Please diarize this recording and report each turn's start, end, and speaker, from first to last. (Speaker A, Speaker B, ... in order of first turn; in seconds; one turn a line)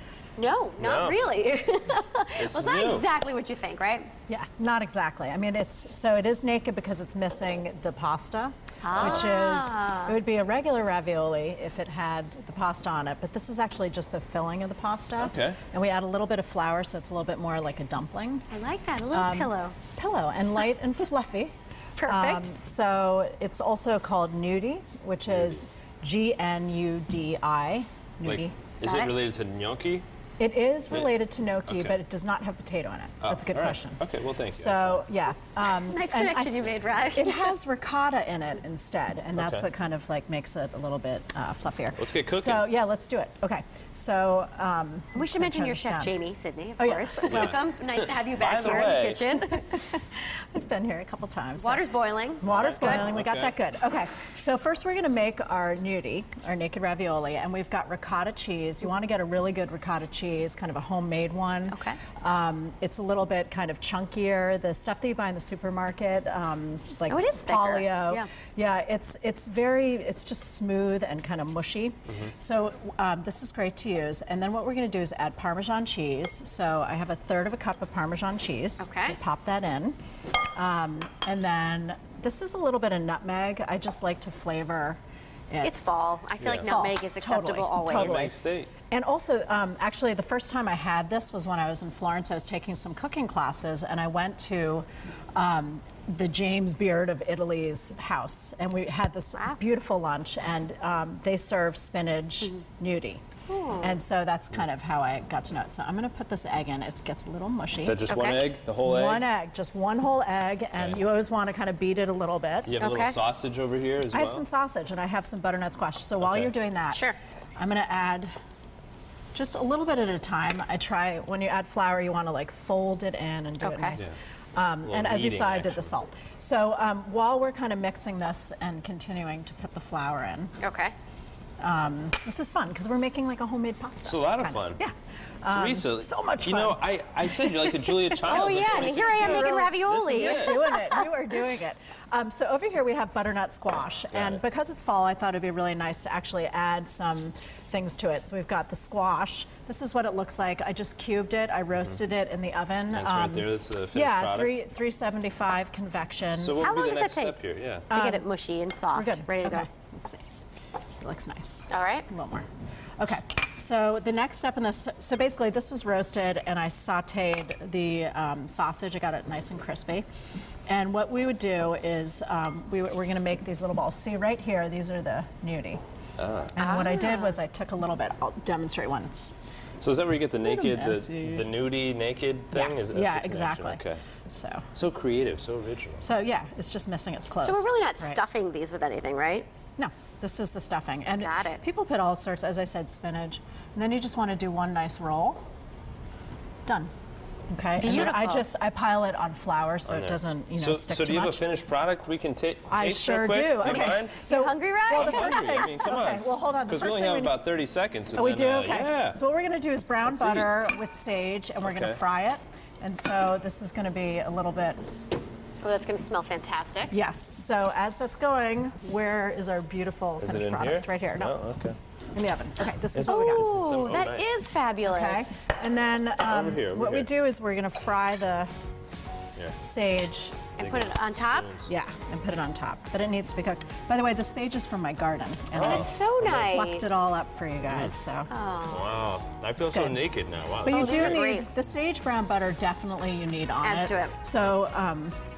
Speaker A: 0.4-4.1
Speaker B: 0.8-1.2
Speaker B: 2.4-3.1
Speaker C: 4.3-18.5
Speaker A: 8.8-10.2
Speaker B: 8.9-9.3
Speaker B: 15.2-15.6
Speaker A: 18.5-19.8
Speaker C: 19.1-21.5
Speaker A: 22.0-22.5
Speaker C: 22.1-28.8
Speaker B: 25.3-25.6
Speaker B: 28.2-30.0
Speaker A: 28.8-29.1
Speaker C: 30.4-34.0
Speaker B: 31.7-32.0
Speaker B: 33.2-35.1
Speaker C: 34.5-46.1
Speaker A: 35.8-37.5
Speaker B: 39.4-39.7
Speaker B: 42.0-42.7
Speaker A: 45.1-49.9
Speaker C: 46.8-47.5
Speaker B: 47.2-49.4
Speaker C: 49.5-51.9
Speaker A: 51.6-53.1
Speaker C: 52.4-80.0
Speaker B: 52.4-53.5
Speaker A: 61.7-62.0
Speaker A: 67.1-68.3
Speaker A: 78.8-79.2
Speaker C: 80.6-85.8
Speaker A: 85.6-88.3
Speaker B: 86.4-86.7
Speaker C: 86.6-103.2
Speaker B: 87.9-88.7
Speaker A: 103.5-104.0
Speaker C: 103.8-108.1
Speaker B: 107.8-109.3
Speaker A: 108.1-108.4
Speaker C: 108.8-112.8
Speaker B: 110.8-111.0
Speaker B: 112.7-114.5
Speaker A: 112.8-113.2
Speaker C: 114.1-117.0
Speaker B: 116.2-116.5
Speaker A: 116.9-117.2
Speaker C: 117.6-118.3
Speaker C: 119.3-130.6
Speaker A: 123.6-124.0
Speaker B: 124.8-125.9
Speaker A: 130.6-130.9
Speaker C: 131.6-156.7
Speaker B: 134.0-134.8
Speaker B: 135.5-140.7
Speaker A: 138.2-141.1
Speaker B: 144.1-144.4
Speaker B: 152.9-154.6
Speaker B: 156.3-157.9
Speaker A: 156.6-159.7
Speaker C: 157.9-158.2
Speaker C: 158.9-160.2
Speaker C: 161.0-162.5
Speaker A: 161.7-162.1
Speaker C: 163.0-170.1
Speaker C: 170.7-175.8
Speaker B: 176.2-176.6
Speaker C: 176.5-179.4
Speaker A: 176.6-177.4
Speaker B: 179.8-184.0
Speaker C: 180.4-181.5
Speaker C: 182.5-184.7
Speaker B: 184.7-186.1
Speaker C: 186.0-188.2
Speaker A: 187.4-189.5
Speaker C: 189.8-195.4
Speaker A: 191.2-191.6
Speaker C: 196.7-196.9
Speaker C: 197.5-201.4
Speaker A: 197.8-198.5
Speaker B: 199.9-204.2
Speaker C: 202.7-207.4
Speaker A: 203.6-205.7
Speaker B: 204.9-209.2
Speaker C: 208.2-214.8
Speaker B: 210.1-210.5
Speaker B: 211.6-212.0
Speaker A: 215.6-217.0
Speaker C: 216.9-221.3
Speaker B: 220.2-221.8
Speaker C: 222.1-223.5
Speaker B: 222.9-224.3
Speaker A: 223.0-225.4
Speaker C: 224.9-228.5
Speaker B: 226.2-227.1
Speaker C: 229.6-230.5
Speaker A: 230.6-231.5
Speaker B: 230.6-231.7
Speaker C: 231.7-238.3
Speaker B: 235.6-235.9
Speaker A: 235.6-237.2
Speaker B: 237.7-238.0
Speaker A: 238.3-238.9
Speaker B: 238.7-241.3
Speaker C: 239.7-240.0
Speaker C: 240.6-245.2
Speaker A: 240.7-241.5
Speaker A: 243.6-244.2